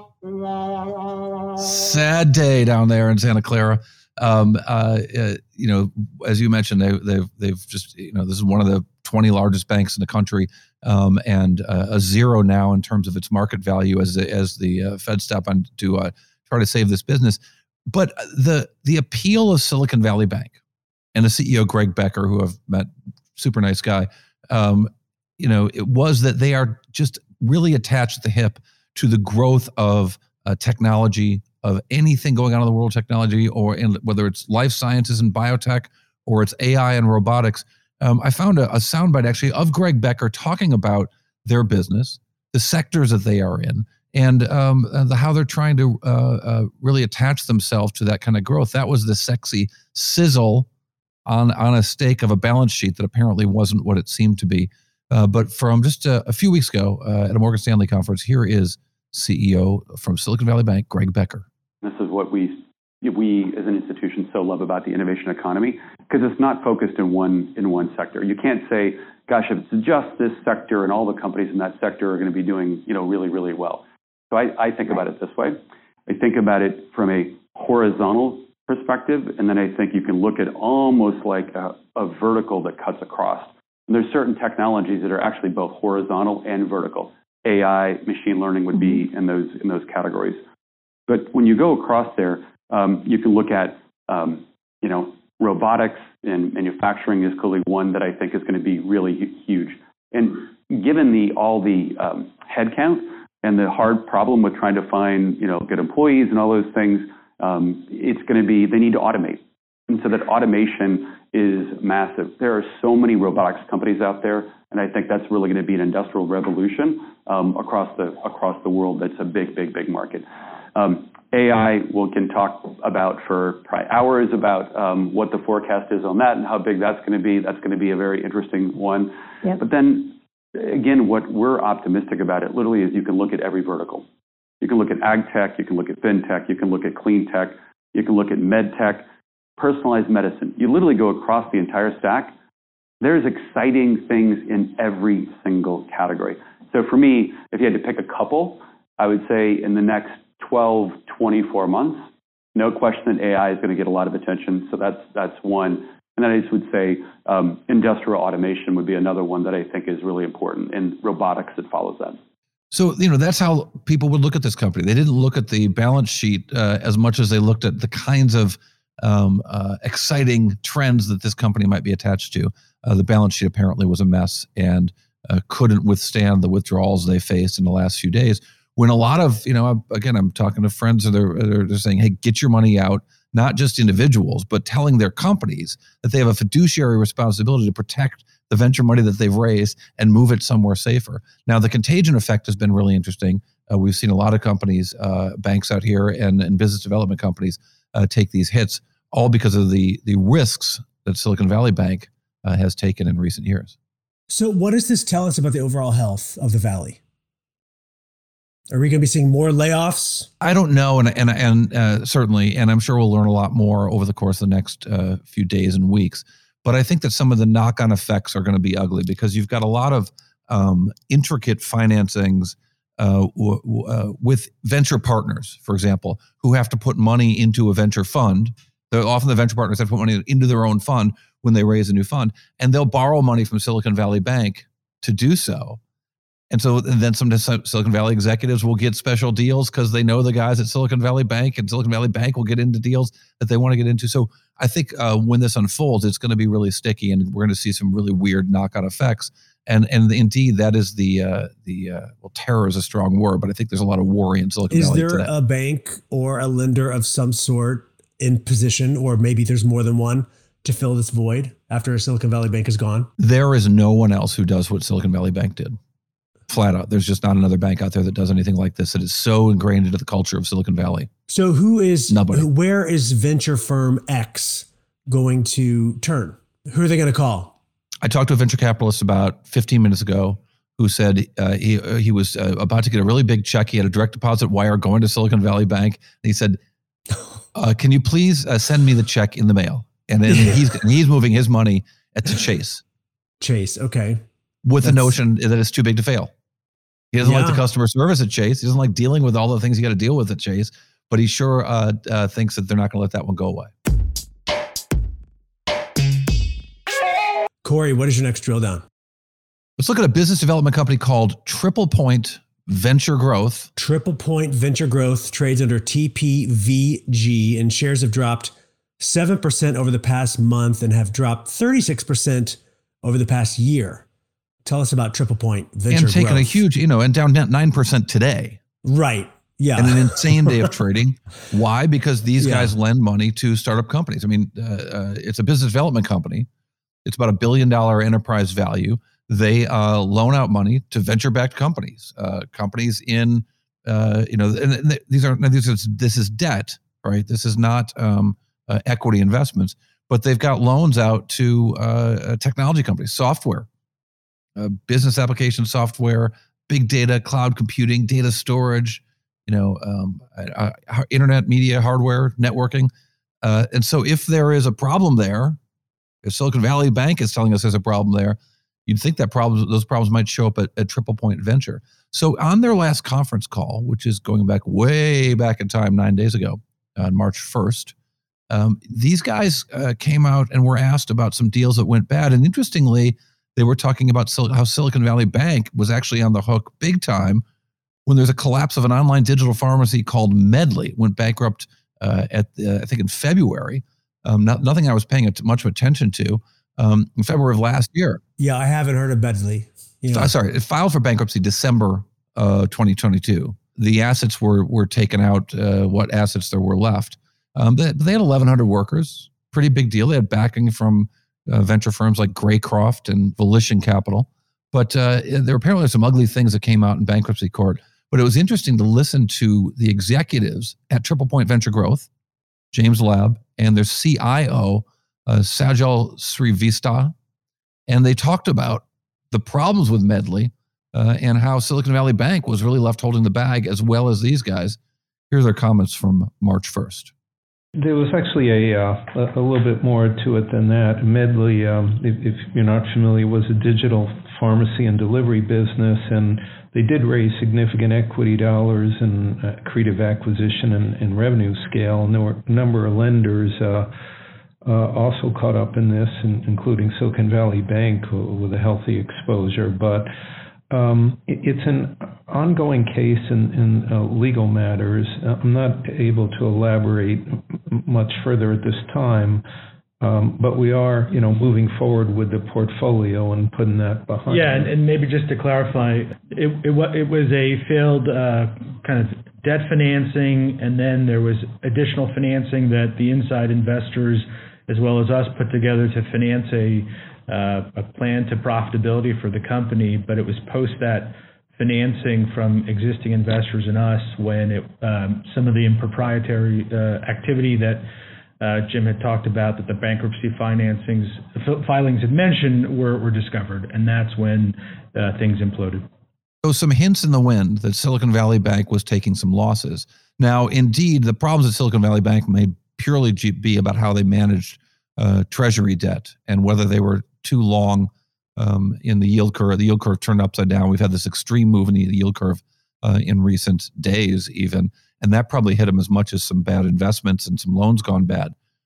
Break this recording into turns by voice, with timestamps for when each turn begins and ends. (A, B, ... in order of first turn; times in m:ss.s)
0:01.6-0:20.5 A
0:21.1-0:50.7 A
0:51.2-1:01.4 A
1:01.8-1:30.4 B
1:31.1-2:14.0 B
2:14.6-2:19.0 B
2:19.6-2:22.3 B
2:23.0-2:42.2 B
2:42.7-3:23.7 A
3:24.3-3:27.0 C
3:28.7-3:30.3 C
3:30.4-3:55.8 A
3:56.5-4:15.3 A
4:14.7-4:23.1 C
4:23.2-4:25.8 A
4:26.5-4:31.1 A
4:31.3-4:37.6 C
4:32.1-4:32.5 A
4:38.0-4:46.6 A
4:47.5-4:52.8 A
4:53.4-4:54.2 C
4:54.6-4:56.3 A
4:54.8-4:55.1 C
4:57.1-5:03.7 A
4:57.2-4:57.6 C
5:07.6-5:08.8 C
5:09.8-5:13.7 A
5:13.8-5:24.0 C
5:24.6-5:26.6 C
5:25.9-5:28.6 A
5:28.8-5:30.7 C
5:29.8-5:36.5 A
5:32.4-5:32.7 C
5:37.0-5:53.7 A
5:54.6-6:02.9 A
6:03.4-6:05.6 A
6:06.2-6:17.9 A
6:18.5-6:27.4 A
6:28.0-6:38.2 A
6:38.4-6:40.3 C
6:40.1-7:02.1 A
7:02.7-7:07.1 A
7:07.9-7:14.8 A
7:15.3-7:17.1 A
7:17.8-7:33.9 D
7:34.6-7:40.1 D
7:40.7-7:49.4 D
7:50.0-7:54.8 D
7:54.3-8:17.8 E
8:18.4-8:25.8 E
8:26.4-8:48.3 A